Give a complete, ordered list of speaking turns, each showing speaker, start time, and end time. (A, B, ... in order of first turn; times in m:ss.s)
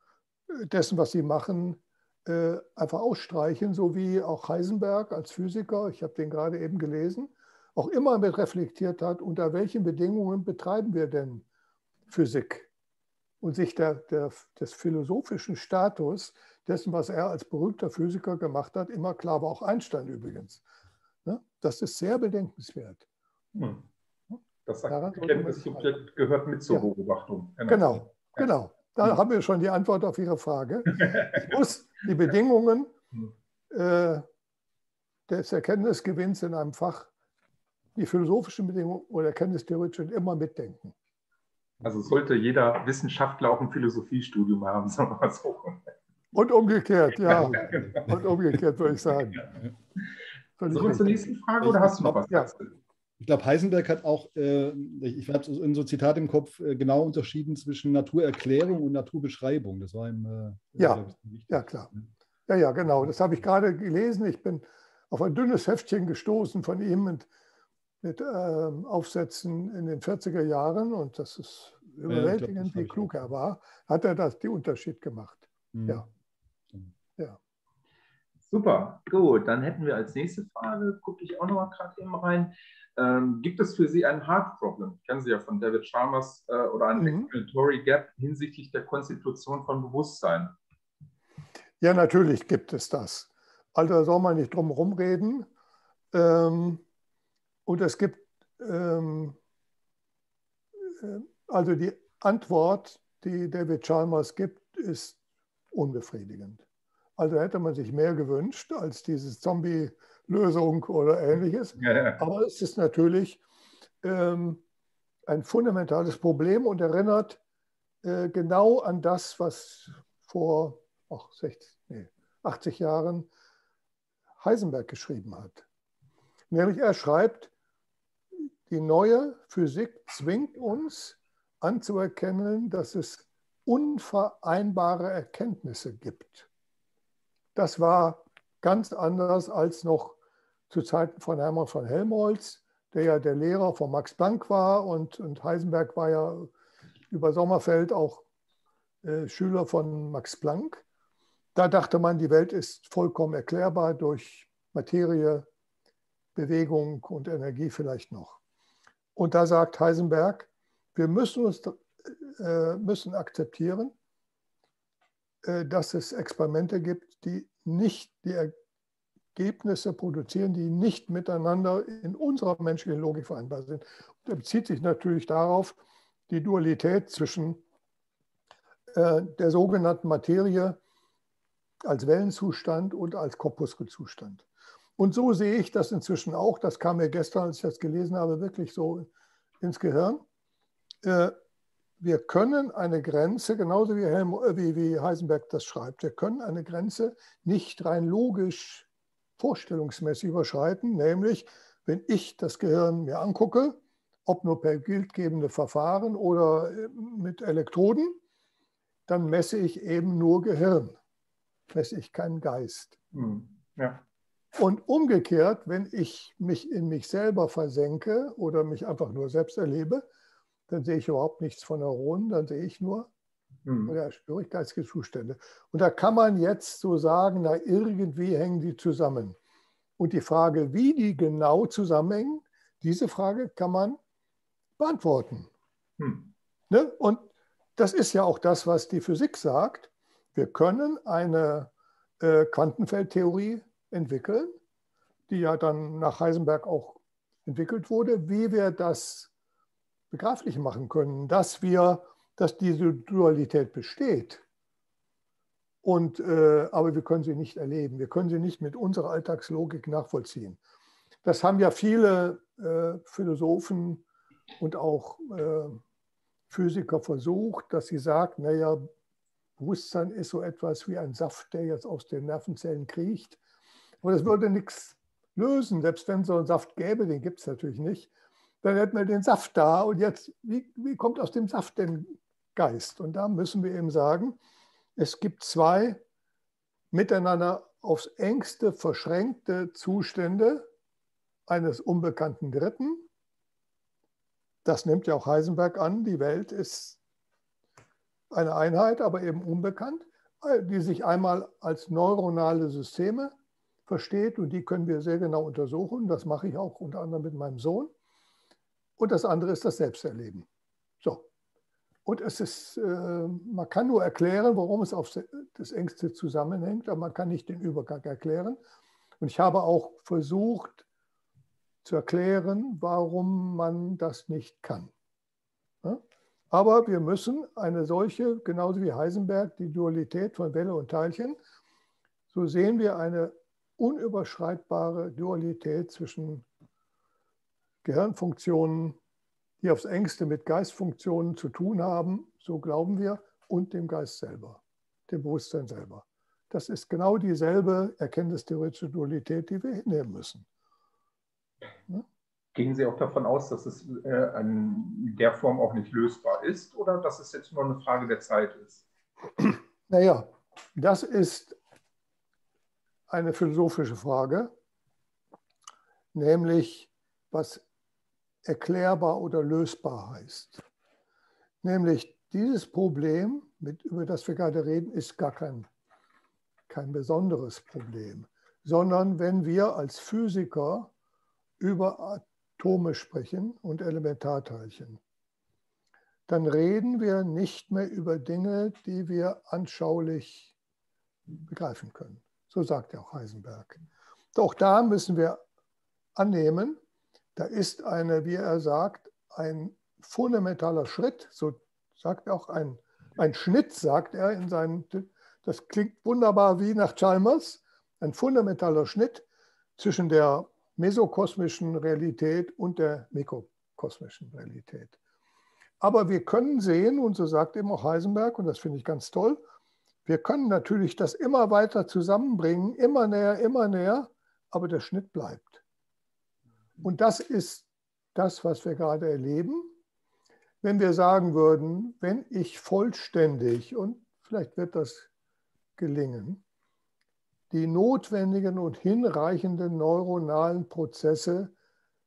0:00.5-0:11.4 A
0:12.1-0:12.7 A
0:13.4-0:20.6 A
0:21.2-0:23.1 A
0:23.6-0:23.8 B
0:24.7-0:28.5 B
0:24.9-0:25.9 A
0:27.7-0:32.9 A
0:31.0-0:31.4 B
0:33.7-0:34.2 A
0:35.3-0:37.1 A
0:38.0-0:40.9 A
0:41.8-0:45.8 B
0:46.3-0:49.5 A
0:47.2-0:48.0 B
0:50.6-0:52.5 A
0:50.7-0:52.8 B
0:53.2-1:02.0 C
1:00.8-1:01.9 A
1:02.5-1:07.3 A
1:08.0-1:16.0 A
1:12.1-1:13.2 C
1:15.7-1:16.1 C
1:18.5-1:30.6 B
1:27.0-1:27.3 A
1:31.8-1:35.5 A
1:36.1-1:36.8 A
1:37.7-1:39.4 A
1:40.8-1:45.2 A
1:45.7-1:46.6 A
1:47.2-1:53.4 A
1:51.8-1:52.2 B
1:54.0-1:54.6 A
1:55.3-1:57.4 A
1:58.0-2:03.3 A
2:04.4-2:05.6 A
2:06.5-2:07.5 A
2:08.7-2:16.5 A
2:17.6-2:20.2 A
2:20.7-2:26.5 A
2:27.1-2:28.2 A
2:29.0-2:30.8 A
2:31.6-2:35.5 A
2:36.4-2:38.4 A
2:39.2-2:43.9 A
2:45.4-2:48.5 A
2:49.4-2:55.8 A
2:56.3-2:57.6 A
2:58.9-3:00.8 A
3:01.8-3:04.4 A
3:05.0-3:09.1 A
3:09.6-3:10.2 A
3:11.0-3:11.4 A
3:12.0-3:18.9 A
3:19.4-3:28.2 A
3:29.1-3:31.0 A
3:31.7-3:33.0 A
3:33.1-3:34.0 B
3:34.6-3:40.1 A
3:40.7-3:43.1 A
3:43.7-3:44.0 B
3:43.9-3:49.4 A
3:50.0-3:54.0 A
3:54.8-3:55.5 A
3:56.0-3:56.3 B
3:56.7-4:04.5 A
4:05.3-4:09.3 A
4:10.1-4:14.4 A
4:15.8-4:20.6 A
4:21.2-4:24.0 A
4:24.6-4:25.8 A
4:26.5-4:28.8 A
4:29.6-4:33.4 A
4:34.0-4:38.1 A
4:38.6-4:44.4 A
4:45.0-4:46.0 A
4:46.9-4:50.7 A
4:51.5-4:53.0 A
4:54.6-4:57.0 A
4:58.3-5:03.3 A
5:03.9-5:07.9 A
5:09.0-5:10.5 A
5:12.0-5:18.6 A
5:19.2-5:20.8 A
5:21.8-5:24.9 A
5:25.8-5:31.4 A
5:32.3-5:36.5 A
5:37.8-5:39.0 A
5:39.6-5:50.5 A
5:52.6-5:58.8 B
5:59.9-6:01.6 A
6:03.1-6:04.5 A
6:06.1-6:07.6 A
6:08.4-6:10.6 A
6:11.6-6:15.7 A
6:16.7-6:20.9 A
6:21.6-6:25.0 A
6:26.3-6:30.5 A
6:31.5-6:33.8 A
6:34.4-6:35.4 A
6:36.2-6:36.8 A
6:37.4-6:49.3 A
6:49.8-6:55.0 A
6:55.8-6:59.4 A
7:00.1-7:05.6 A
7:06.8-7:09.7 A
7:10.6-7:15.1 A
7:15.8-7:16.4 A
7:17.5-7:21.5 A